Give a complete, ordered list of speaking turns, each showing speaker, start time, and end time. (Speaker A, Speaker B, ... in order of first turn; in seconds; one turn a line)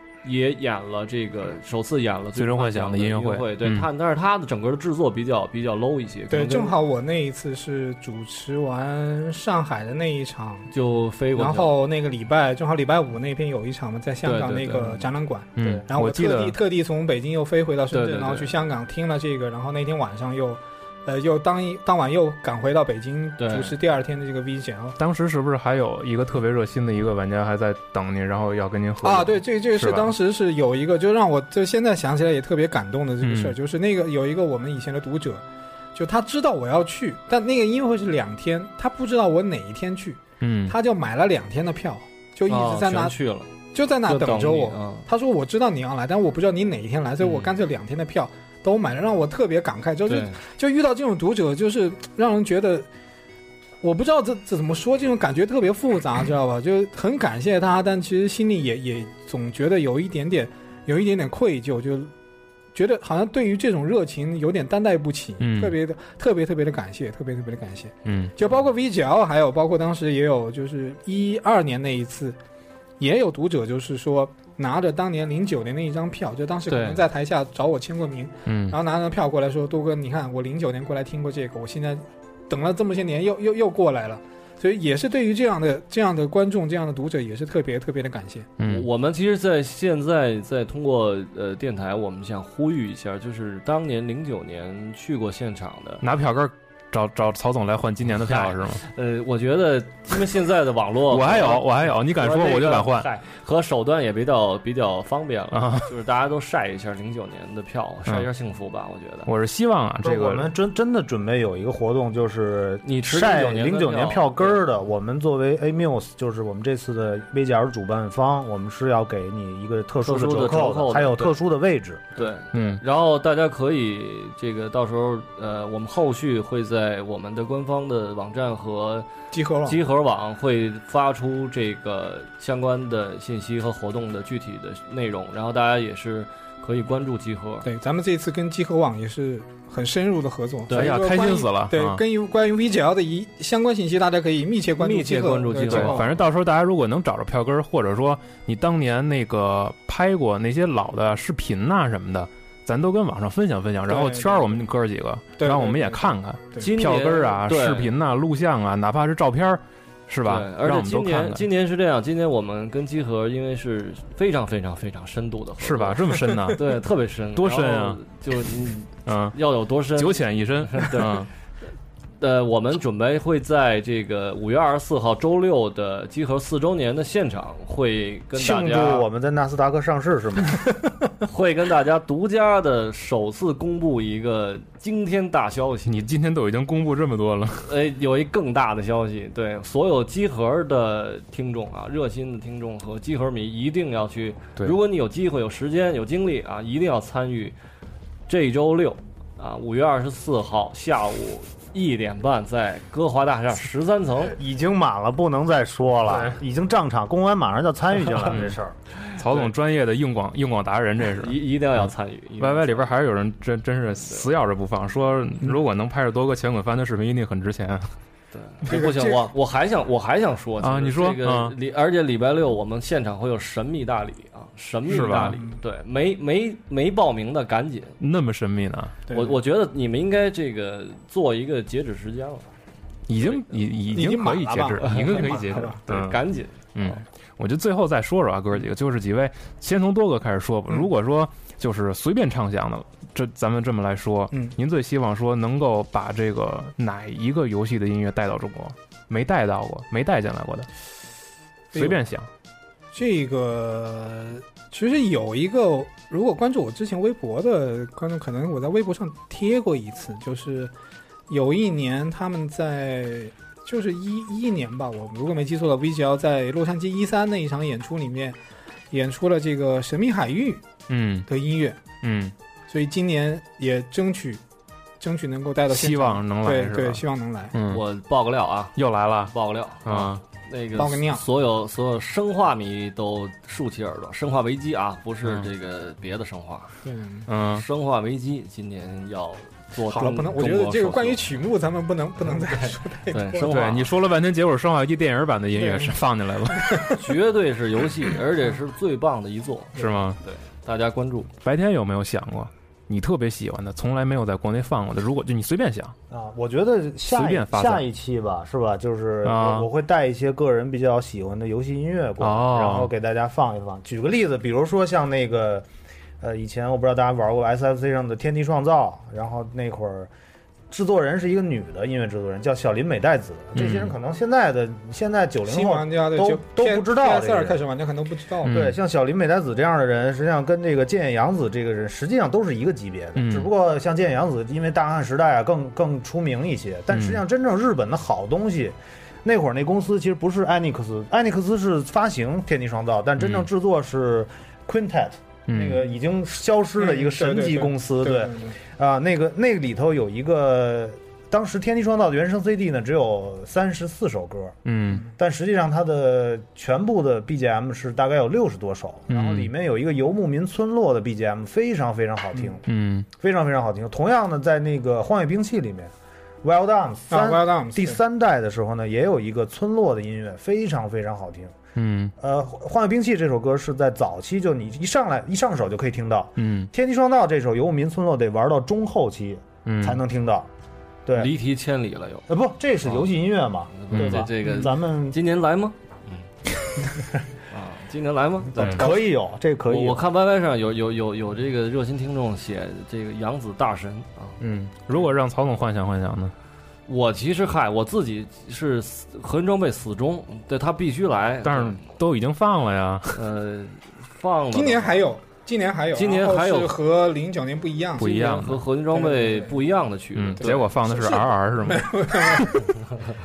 Speaker A: 0.2-6.8
Speaker B: 2.4-3.9
Speaker C: 6.3-10.7
Speaker A: 10.7-11.7
Speaker C: 11.3-25.0
Speaker A: 14.2-15.1
Speaker B: 15.6-16.6
Speaker A: 17.9-18.5
Speaker A: 23.4-23.8
Speaker B: 25.0-30.1
Speaker C: 29.0-35.4
Speaker B: 33.2-33.5
Speaker C: 36.0-43.1
Speaker B: 40.4-40.8
Speaker A: 42.5-43.5
Speaker C: 43.7-52.9
Speaker A: 44.0-45.1
Speaker A: 47.2-47.5
Speaker A: 50.1-50.4
Speaker C: 53.8-62.1
Speaker C: 62.7-72.4
Speaker B: 65.4-65.8
Speaker B: 68.1-68.3
Speaker C: 73.0-88.5
Speaker A: 76.7-77.0
Speaker B: 78.5-78.8
Speaker B: 88.6-88.9
Speaker A: 88.6-96.0
Speaker B: 96.0-98.8
Speaker A: 98.2-109.3
Speaker B: 101.1-103.1
Speaker B: 105.5-105.9
Speaker B: 109.3-110.5
Speaker D: 110.0-122.0
Speaker A: 112.8-114.6
Speaker A: 120.1-121.4
Speaker A: 122.2-129.1
Speaker B: 122.5-122.8
Speaker C: 129.3-129.8
Speaker A: 129.6-137.7
Speaker C: 137.6-146.1
Speaker A: 140.7-141.0
Speaker B: 140.7-142.0
Speaker A: 144.8-146.1
Speaker B: 145.7-161.4
Speaker C: 153.9-154.7
Speaker C: 155.4-156.7
Speaker A: 156.6-157.9
Speaker A: 160.2-171.2
Speaker B: 165.6-166.6
Speaker B: 167.3-168.0
Speaker B: 169.1-169.4
Speaker B: 170.0-171.3
Speaker A: 172.2-179.1
Speaker D: 178.3-180.6
Speaker A: 181.3-186.1
Speaker B: 185.9-187.7
Speaker A: 187.7-197.6
Speaker A: 198.3-204.4
Speaker D: 204.4-208.8
Speaker B: 209.2-211.4
Speaker A: 211.2-212.9
Speaker B: 212.4-217.9
Speaker A: 218.3-228.0
Speaker C: 218.7-219.3
Speaker B: 220.6-221.6
Speaker B: 224.9-225.4
Speaker C: 224.9-225.6
Speaker B: 228.0-229.0
Speaker C: 229.1-229.4
Speaker A: 229.1-232.5
Speaker B: 233.1-236.2
Speaker A: 233.2-233.6
Speaker C: 233.9-235.8
Speaker A: 234.8-237.0
Speaker B: 236.8-250.7
Speaker C: 251.7-252.0
Speaker B: 251.8-252.3
Speaker C: 252.9-260.7
Speaker C: 261.3-268.4
Speaker C: 268.9-270.6
Speaker B: 270.9-271.3
Speaker C: 271.3-271.8
Speaker B: 272.0-272.3
Speaker C: 272.7-274.4
Speaker C: 275.0-277.5
Speaker B: 275.7-277.8
Speaker A: 277.7-278.8
Speaker B: 278.8-279.3
Speaker A: 279.3-286.8
Speaker B: 279.8-280.2
Speaker C: 280.8-281.2
Speaker C: 286.8-287.3
Speaker B: 287.3-287.6
Speaker A: 287.5-291.2
Speaker C: 289.9-293.4
Speaker A: 292.3-293.9
Speaker B: 293.4-296.9
Speaker C: 295.6-295.9
Speaker C: 296.6-297.0
Speaker A: 297.0-301.3
Speaker B: 299.8-300.2
Speaker B: 301.4-305.9
Speaker D: 306.1-315.7
Speaker B: 307.1-307.8
Speaker B: 309.2-309.7
Speaker B: 312.2-312.9
Speaker D: 316.2-320.1
Speaker D: 320.7-327.6
Speaker B: 323.6-323.9
Speaker C: 325.5-328.6
Speaker B: 328.4-328.8
Speaker D: 328.5-354.6
Speaker B: 333.2-333.5
Speaker B: 336.9-337.2
Speaker B: 343.2-343.4
Speaker B: 345.5-345.8
Speaker C: 346.8-348.6
Speaker B: 354.7-355.1
Speaker D: 355.1-365.9
Speaker B: 359.1-359.5
Speaker B: 362.7-363.1
Speaker D: 366.4-371.6
Speaker C: 367.1-368.0
Speaker B: 371.8-372.1
Speaker D: 372.2-380.5
Speaker B: 376.4-376.7
Speaker B: 379.7-380.0
Speaker D: 381.1-381.3
Speaker A: 381.2-382.3
Speaker D: 382.3-385.2
Speaker A: 382.8-383.1
Speaker A: 383.7-386.3
Speaker B: 383.9-384.3
Speaker A: 387.5-389.1
Speaker D: 388.6-390.0
Speaker B: 388.6-388.8
Speaker A: 389.7-394.4
Speaker B: 394.4-396.3
Speaker A: 396.9-401.9
Speaker B: 401.4-403.2
Speaker A: 403.1-405.0
Speaker C: 404.5-408.2
Speaker A: 405.9-406.8
Speaker B: 408.0-408.7
Speaker A: 408.0-410.7
Speaker C: 408.9-409.6
Speaker B: 410.1-412.5
Speaker C: 410.4-412.8